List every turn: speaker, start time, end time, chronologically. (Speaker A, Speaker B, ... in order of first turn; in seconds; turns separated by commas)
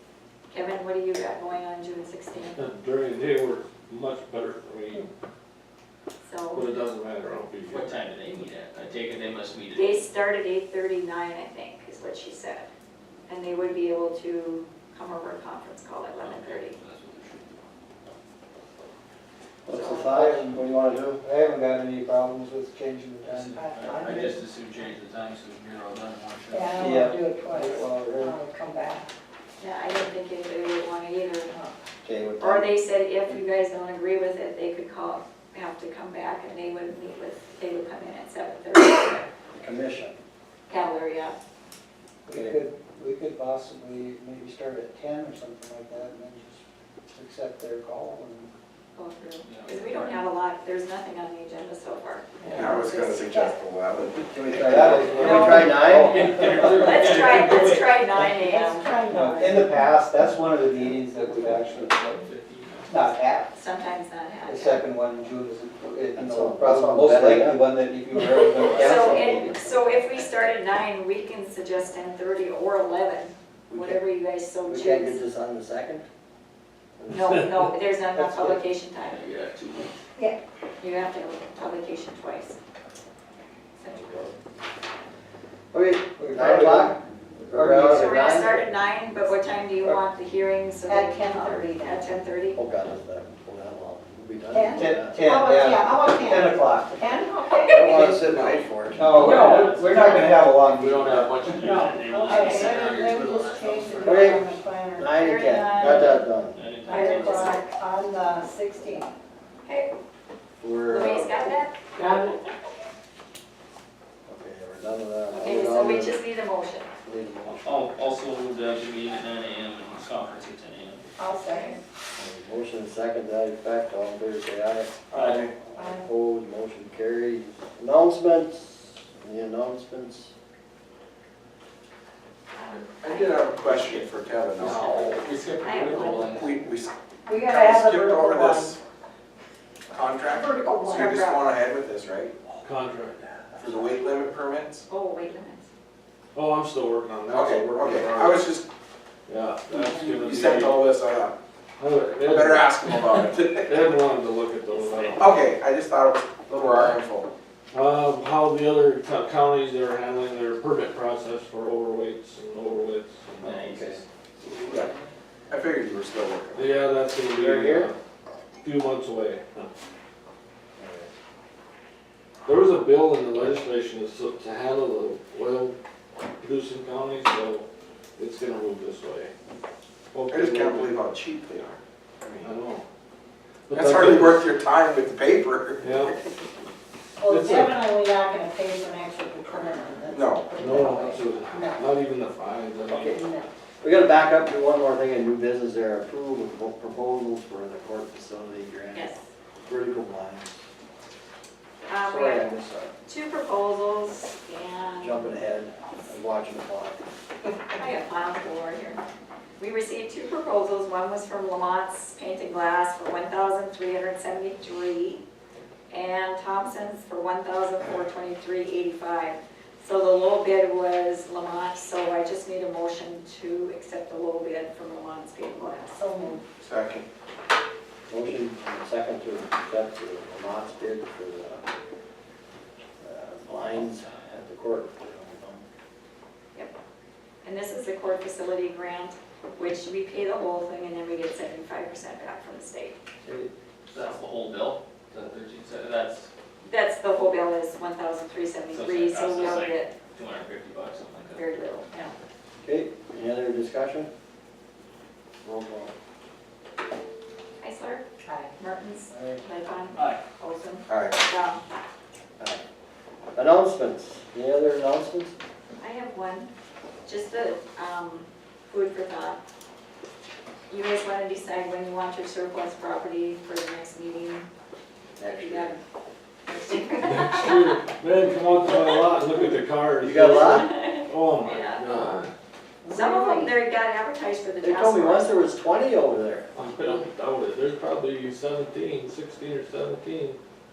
Speaker A: 0.5-2.6, Speaker B: 2.5-5.1, Speaker A: 6.2-6.7, Speaker B: 6.5-7.9, Speaker C: 7.7-10.1, Speaker A: 9.7-12.7, Speaker A: 13.3-16.8, Speaker C: 16.2-17.6, Speaker D: 19.6-21.2, Speaker E: 19.7-20.6, Speaker E: 21.2-24.3, Speaker C: 23.2-26.9, Speaker F: 23.6-24.4, Speaker F: 26.5-29.1, Speaker D: 26.8-27.2, Speaker E: 26.8-28.4, Speaker D: 27.7-28.2, Speaker A: 29.6-31.5, Speaker F: 31.5-31.7, Speaker D: 32.0-32.7, Speaker A: 32.4-39.3, Speaker D: 39.6-40.1, Speaker A: 40.7-41.4, Speaker E: 42.2-48.5, Speaker D: 42.3-42.6, Speaker A: 48.9-52.3, Speaker C: 49.5-50.2, Speaker F: 52.4-53.5, Speaker G: 52.5-54.9, Speaker D: 54.3-56.3, Speaker E: 54.5-56.8, Speaker C: 55.1-58.0, Speaker A: 55.2-55.8, Speaker A: 56.6-58.9, Speaker F: 58.4-60.0, Speaker E: 59.1-62.2, Speaker C: 61.4-63.1, Speaker E: 62.9-63.5, Speaker A: 63.5-64.8, Speaker E: 64.4-69.4, Speaker D: 66.2-67.7, Speaker A: 68.6-75.2, Speaker D: 68.6-69.6, Speaker D: 73.7-74.0, Speaker D: 74.7-76.1, Speaker D: 77.0-77.5, Speaker A: 77.1-79.2, Speaker E: 78.1-78.6, Speaker C: 79.0-79.9, Speaker A: 80.8-82.6, Speaker A: 83.8-84.3, Speaker D: 83.9-84.3, Speaker D: 85.7-87.0, Speaker E: 86.2-87.0, Speaker D: 87.5-88.6, Speaker E: 87.5-88.2, Speaker A: 87.9-92.6, Speaker F: 90.8-92.1, Speaker D: 92.5-95.2, Speaker F: 94.5-97.9, Speaker E: 94.7-97.1, Speaker A: 97.4-97.9, Speaker D: 97.7-99.3, Speaker G: 97.8-98.6, Speaker E: 97.8-98.3, Speaker E: 98.9-101.6, Speaker C: 99.1-104.5, Speaker F: 99.2-99.6, Speaker F: 101.6-105.4, Speaker D: 104.0-106.6, Speaker A: 105.2-106.2, Speaker C: 105.8-107.6, Speaker F: 106.8-109.1, Speaker A: 106.9-107.7, Speaker A: 109.6-109.9, Speaker D: 110.6-111.4, Speaker A: 110.9-112.4, Speaker F: 111.9-112.4, Speaker D: 114.2-116.2, Speaker A: 115.3-116.9, Speaker D: 117.0-117.9, Speaker C: 117.6-121.0, Speaker F: 121.2-121.8, Speaker A: 121.4-121.8, Speaker D: 122.1-125.0, Speaker C: 125.1-125.5, Speaker G: 125.2-125.5, Speaker D: 125.5-130.3, Speaker F: 125.8-126.1, Speaker A: 132.5-133.9, Speaker G: 133.0-138.8, Speaker B: 134.6-135.1, Speaker C: 134.6-136.6, Speaker A: 135.6-136.4, Speaker F: 137.3-138.8, Speaker G: 139.9-142.3, Speaker F: 140.3-141.4, Speaker A: 140.9-141.4, Speaker B: 142.6-143.5, Speaker G: 143.6-144.8, Speaker A: 144.9-145.7, Speaker B: 146.3-148.5, Speaker G: 147.3-148.7, Speaker B: 149.3-150.9, Speaker F: 149.7-150.1, Speaker G: 150.2-151.3, Speaker B: 151.8-155.3, Speaker G: 152.2-153.9, Speaker C: 154.7-155.4, Speaker G: 155.2-157.3, Speaker B: 156.6-156.9, Speaker B: 157.7-163.7, Speaker C: 163.4-164.9, Speaker D: 163.5-164.0, Speaker G: 165.5-166.7, Speaker B: 166.5-167.9, Speaker D: 167.3-167.9, Speaker B: 168.6-169.7, Speaker D: 170.8-171.1, Speaker B: 172.4-175.8, Speaker B: 176.4-177.7, Speaker B: 178.2-179.3, Speaker B: 180.1-181.0, Speaker G: 180.3-182.5, Speaker B: 182.4-182.8, Speaker B: 183.7-184.5, Speaker G: 183.7-186.1, Speaker B: 185.8-186.1, Speaker F: 187.2-191.9, Speaker B: 187.2-187.8, Speaker G: 190.1-190.5, Speaker B: 190.5-193.1, Speaker D: 192.9-193.2, Speaker F: 193.1-193.5, Speaker D: 193.8-199.1, Speaker A: 198.9-199.2, Speaker D: 199.6-200.6, Speaker A: 201.9-202.5, Speaker D: 202.0-202.9, Speaker A: 203.1-205.3, Speaker D: 205.0-207.0, Speaker A: 207.7-209.0, Speaker A: 209.6-215.2, Speaker A: 215.9-226.0, Speaker F: 225.9-226.4, Speaker G: 226.6-227.1, Speaker D: 228.1-231.7, Speaker D: 233.0-235.6, Speaker A: 237.4-242.9, Speaker D: 243.2-244.1, Speaker C: 243.9-246.3, Speaker A: 246.6-249.9, Speaker C: 248.7-251.5, Speaker A: 251.3-251.9, Speaker D: 252.6-254.1, Speaker D: 255.4-255.9, Speaker A: 257.6-261.6, Speaker F: 258.2-258.5, Speaker E: 259.1-259.4, Speaker C: 259.9-260.2, Speaker G: 260.9-261.1, Speaker D: 263.3-265.3, Speaker A: 265.8-266.5, Speaker A: 267.0-269.4, Speaker A: 270.7-274.4, Speaker D: 275.2-275.8, Speaker A: 275.2-275.8, Speaker A: 276.5-277.8, Speaker B: 277.0-282.3, Speaker D: 280.0-280.7, Speaker A: 280.3-281.8, Speaker F: 282.8-283.6, Speaker A: 282.9-285.3, Speaker D: 284.6-286.5, Speaker B: 286.5-290.4